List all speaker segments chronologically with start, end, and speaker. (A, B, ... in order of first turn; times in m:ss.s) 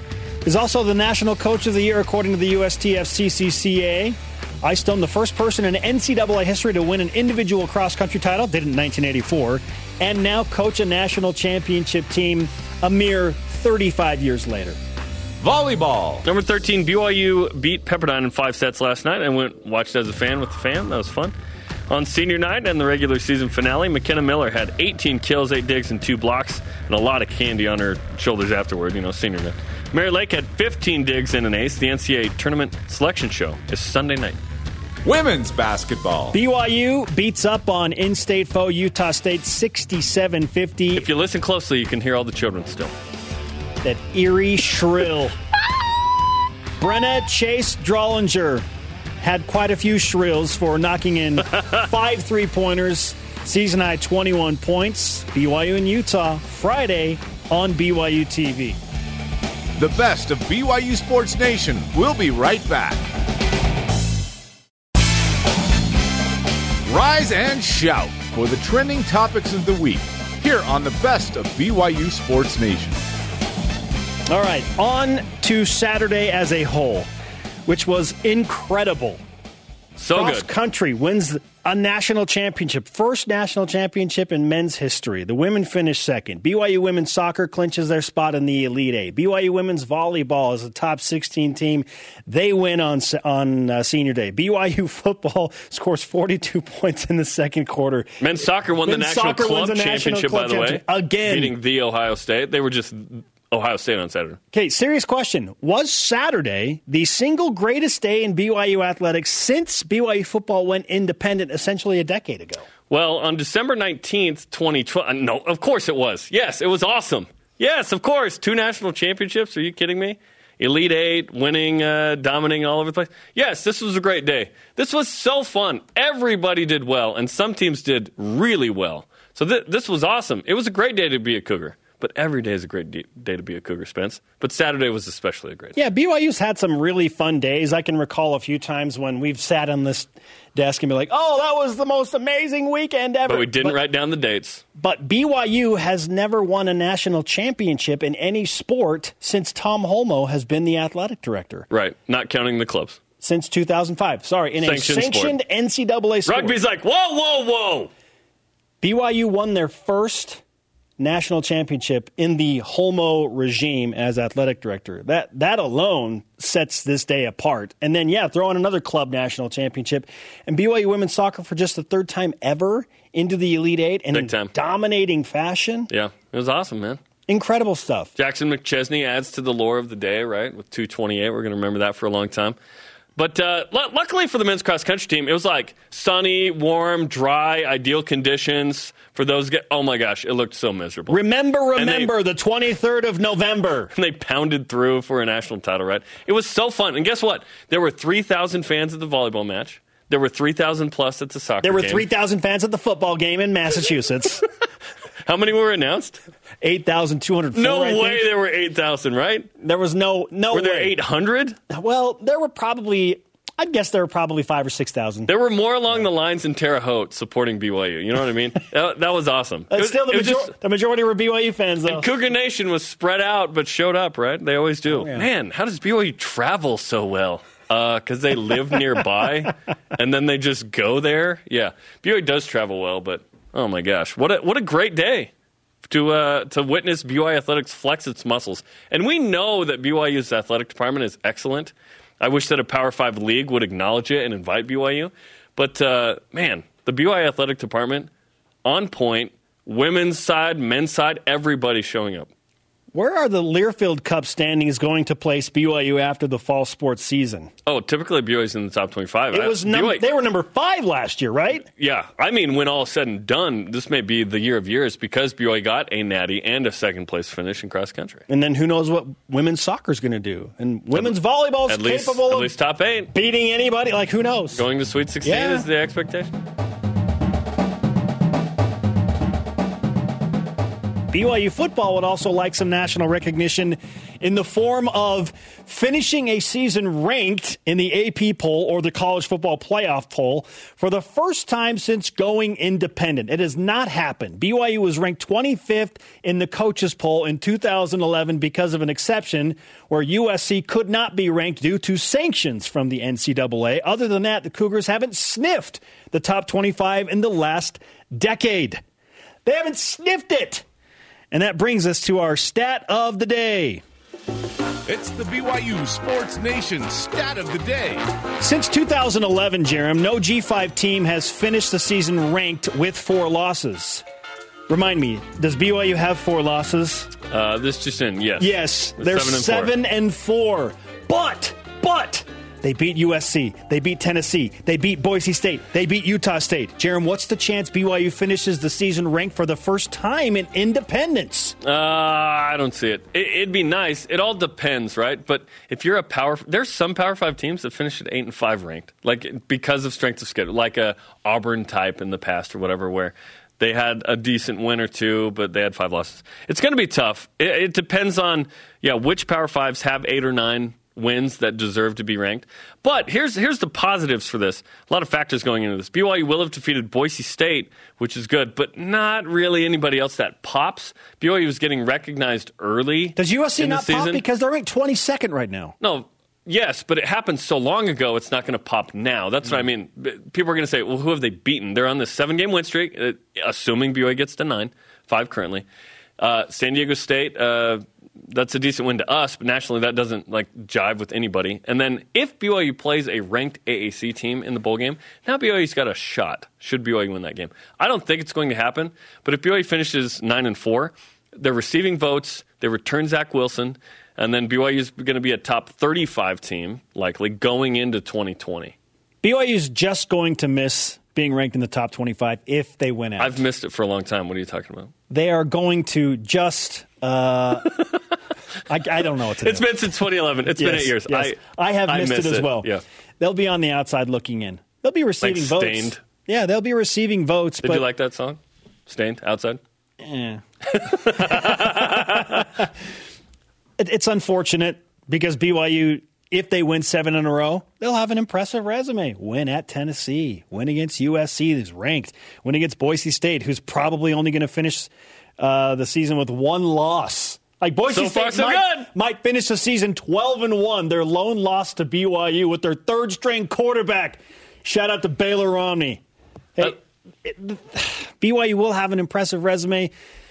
0:00.4-0:14.8 A
0:15.4-0:16.3 B
0:16.2-0:21.3 C
0:21.9-0:34.4 C
0:35.0-0:36.4 B
0:36.3-0:41.1 A
0:41.0-0:42.9 C
0:43.8-0:45.3 A
0:46.8-0:48.6 A
0:49.2-0:58.8 A
0:51.5-0:51.8 C
0:59.8-1:03.1 B
1:06.9-1:13.0 B
1:14.3-1:17.1 A
1:17.7-1:19.2 A
1:20.0-1:20.5 C
1:20.1-1:38.2 A
1:38.2-1:44.4 C
1:38.8-1:41.6 A
1:44.5-1:52.7 A
1:52.9-2:15.8 C
2:15.8-2:23.8 A
2:23.3-2:24.6 C
2:24.8-2:31.7 A
2:31.7-2:33.0 C
2:33.2-2:36.6 A
2:34.6-2:35.4 C
2:36.3-2:37.9 C
2:38.8-2:40.4 A
2:41.0-2:55.9 A
2:54.1-2:54.5 C
2:55.9-2:57.0 C
2:57.3-2:58.1 A
2:58.2-3:02.6 C
3:03.2-3:11.2 C
3:11.1-3:13.9 A
3:11.8-3:12.1 C
3:13.9-3:22.1 C
3:21.6-3:24.4 A
3:25.2-3:26.2 C
3:26.6-3:28.3 A
3:27.5-3:29.5 C
3:29.6-3:31.0 A
3:30.5-3:31.6 C
3:31.7-3:35.3 A
3:35.3-3:40.5 C
3:39.7-3:42.1 A
3:41.9-3:55.3 C
3:44.9-3:45.3 A
3:55.8-4:08.1 C
4:08.6-4:12.3 C
4:12.9-4:17.5 A
4:17.6-4:20.1 C
4:19.3-4:21.7 A
4:21.6-4:28.2 C
4:28.3-4:32.5 A
4:30.9-4:31.2 C
4:31.7-4:33.1 C
4:33.1-4:34.6 A
4:34.5-4:36.3 C
4:35.2-4:35.7 A
4:41.1-5:08.8 A
5:09.5-5:10.6 A
5:11.3-5:13.8 A
5:14.9-5:18.0 B
5:18.4-5:24.0 A
5:24.7-5:27.1 A
5:27.3-5:29.7 C
5:28.4-5:41.6 A
5:41.6-6:14.2 C
6:13.2-6:15.8 A
6:15.8-6:25.6 C
6:26.2-6:48.8 C
6:49.2-6:53.4 A
6:53.2-6:54.9 C
6:55.1-6:57.7 A
6:58.7-6:59.7 A
6:59.4-7:02.8 C
7:00.6-7:02.7 A
7:03.2-7:07.9 A
7:05.2-7:06.0 C
7:07.6-7:09.6 C
7:10.0-7:10.4 A
7:10.7-7:12.5 C
7:11.2-7:12.4 A
7:13.8-7:36.0 A
7:27.9-7:28.9 C
7:36.6-7:39.9 A